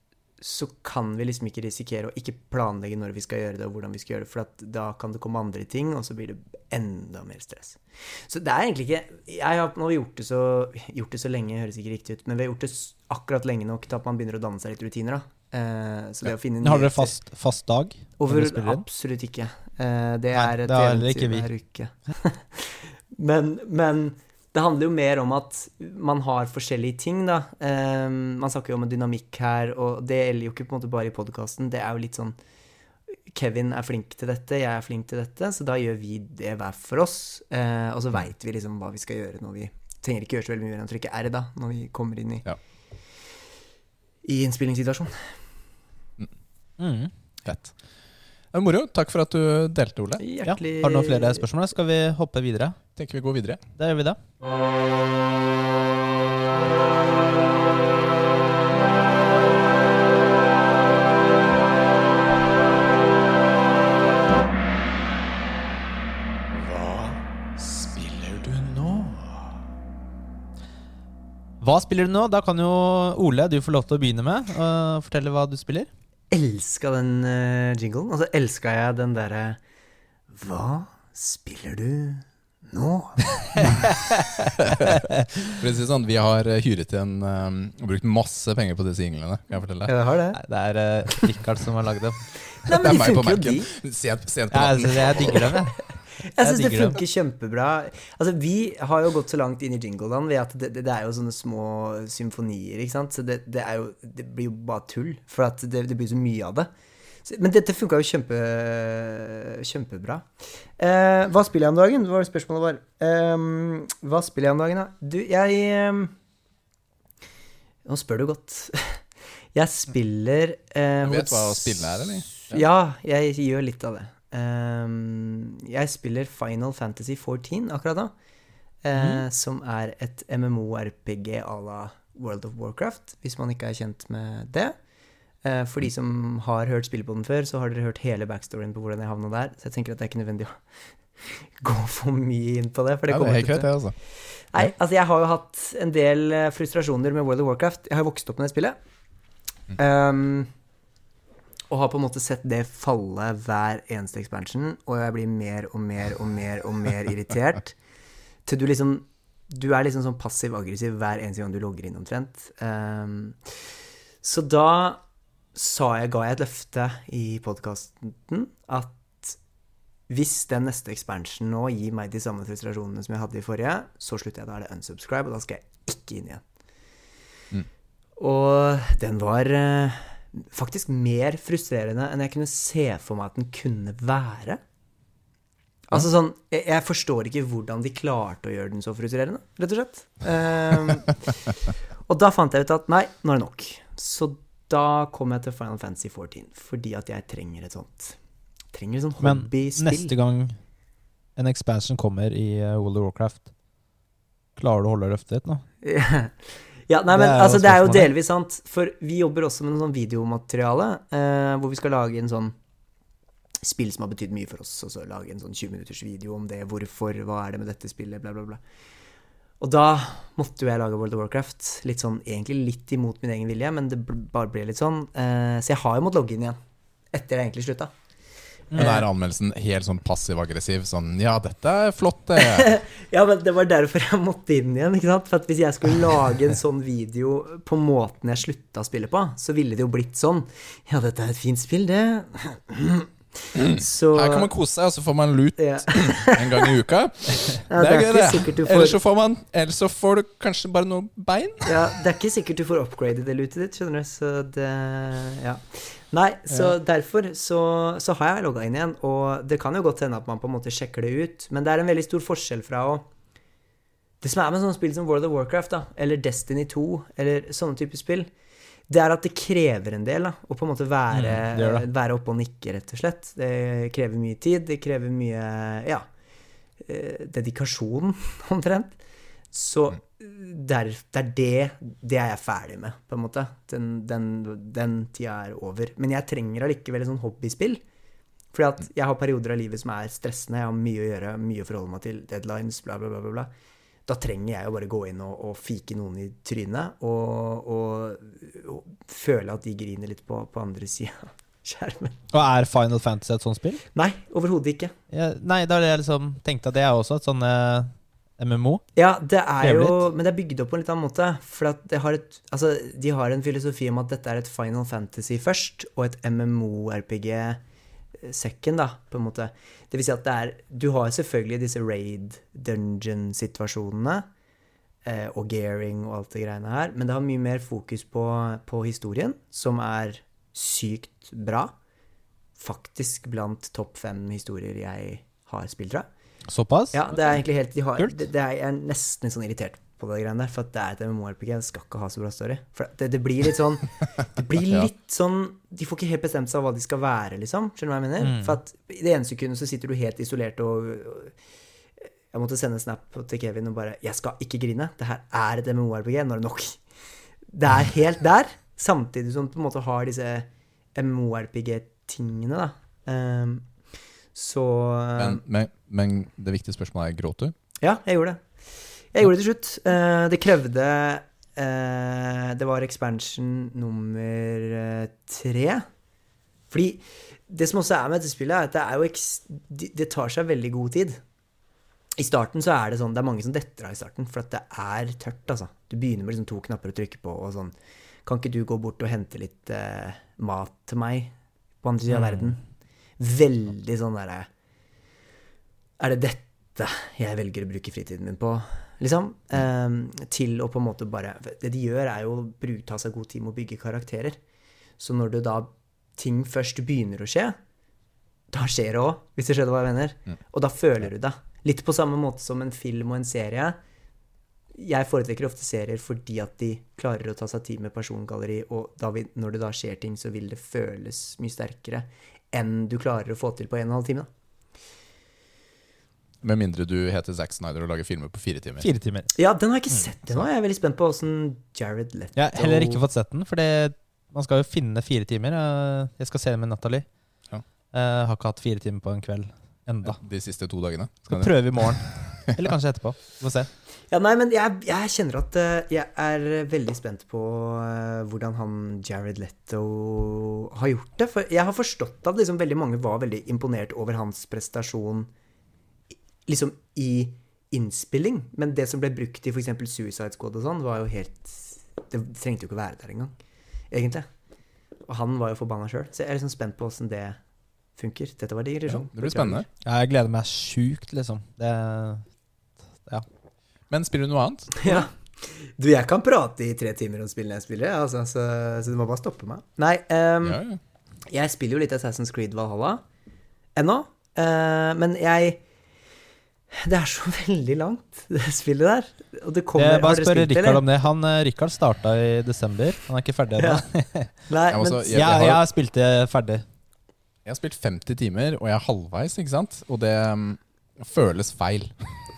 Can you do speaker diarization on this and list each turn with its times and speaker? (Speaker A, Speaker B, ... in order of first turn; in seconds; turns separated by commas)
Speaker A: 0.4-17.1, Speaker B: 16.6-18.8, Speaker A: 18.2-32.4, Speaker B: 20.3-21.5, Speaker A: 33.3-42.5, Speaker A: 44.2-45.4, Speaker B: 46.8-47.1, Speaker C: 47.5-47.8, Speaker C: 48.5-50.2, Speaker A: 50.2-51.4, Speaker B: 50.5-52.8, Speaker C: 53.0-53.6, Speaker B: 53.8-54.2, Speaker C: 66.5-69.5, Speaker B: 71.6-75.9, Speaker A: 76.3-79.6, Speaker A: 80.3-83.7, Speaker B: 83.5-84.0, Speaker C: 84.6-85.0, Speaker B: 84.9-85.5, Speaker C: 85.5-89.9, Speaker A: 89.9-90.4, Speaker B: 90.3-92.2, Speaker A: 92.5-93.7, Speaker C: 92.7-95.5, Speaker B: 94.5-95.8, Speaker A: 96.2-106.7, Speaker B: 96.4-97.0, Speaker A: 107.3-110.3, Speaker A: 110.8-116.1, Speaker A: 117.8-128.1, Speaker C: 121.0-122.6, Speaker A: 128.8-134.8, Speaker B: 128.9-129.2, Speaker A: 135.4-140.6, Speaker A: 141.2-143.7, Speaker C: 143.1-144.0, Speaker A: 144.5-148.8, Speaker A: 149.7-150.5, Speaker A: 151.7-157.8, Speaker A: 158.5-163.5, Speaker A: 164.2-165.0, Speaker A: 165.6-169.4, Speaker A: 170.1-176.4, Speaker A: 178.2-184.6, Speaker A: 185.9-191.2, Speaker A: 192.1-198.2, Speaker A: 198.7-200.1, Speaker B: 199.2-200.6, Speaker B: 201.4-203.5, Speaker B: 204.6-205.6, Speaker A: 205.8-206.3, Speaker A: 206.9-212.6, Speaker B: 207.1-208.1, Speaker A: 213.6-218.6, Speaker A: 219.6-226.6, Speaker A: 227.1-227.9, Speaker B: 228.7-229.0, Speaker C: 228.8-232.8, Speaker A: 232.4-244.5, Speaker C: 243.6-252.0, Speaker A: 245.6-246.7, Speaker A: 247.7-249.0, Speaker A: 251.7-263.1, Speaker A: 264.2-268.3, Speaker A: 268.9-276.1, Speaker B: 271.1-271.9, Speaker A: 276.8-279.0, Speaker A: 279.5-287.8, Speaker A: 288.5-293.5, Speaker A: 294.1-302.2, Speaker B: 302.3-303.8, Speaker A: 303.9-304.9, Speaker B: 305.1-308.8, Speaker A: 309.0-317.6, Speaker B: 309.6-310.0, Speaker A: 318.2-324.3, Speaker A: 325.1-331.7, Speaker A: 332.6-336.1, Speaker B: 336.5-337.0, Speaker A: 336.9-351.4, Speaker B: 348.2-348.6, Speaker A: 352.3-356.8, Speaker A: 357.5-363.7, Speaker A: 364.4-365.4, Speaker C: 365.2-367.5, Speaker A: 367.8-368.4, Speaker A: 369.1-375.9, Speaker A: 376.7-381.2, Speaker A: 382.2-387.8, Speaker A: 388.3-392.6, Speaker A: 393.2-394.5, Speaker A: 396.0-404.4, Speaker A: 405.0-407.6, Speaker A: 408.5-413.8, Speaker A: 414.7-424.3, Speaker C: 426.4-428.9, Speaker B: 428.8-429.3, Speaker A: 429.4-433.0, Speaker B: 432.4-437.1, Speaker B: 437.9-440.2, Speaker C: 440.0-442.5, Speaker B: 441.3-443.7, Speaker A: 444.1-455.3, Speaker A: 456.5-463.3, Speaker A: 463.9-464.3, Speaker A: 465.1-467.4, Speaker A: 468.0-469.7, Speaker C: 468.9-469.7, Speaker B: 469.9-472.3, Speaker C: 473.9-474.8, Speaker A: 474.8-480.6, Speaker C: 480.4-480.8, Speaker A: 481.3-483.0, Speaker A: 483.8-485.6, Speaker A: 486.7-490.9, Speaker B: 489.8-494.3, Speaker A: 493.6-493.9, Speaker A: 494.5-495.2, Speaker C: 494.7-495.6, Speaker B: 495.1-496.6, Speaker C: 497.4-502.2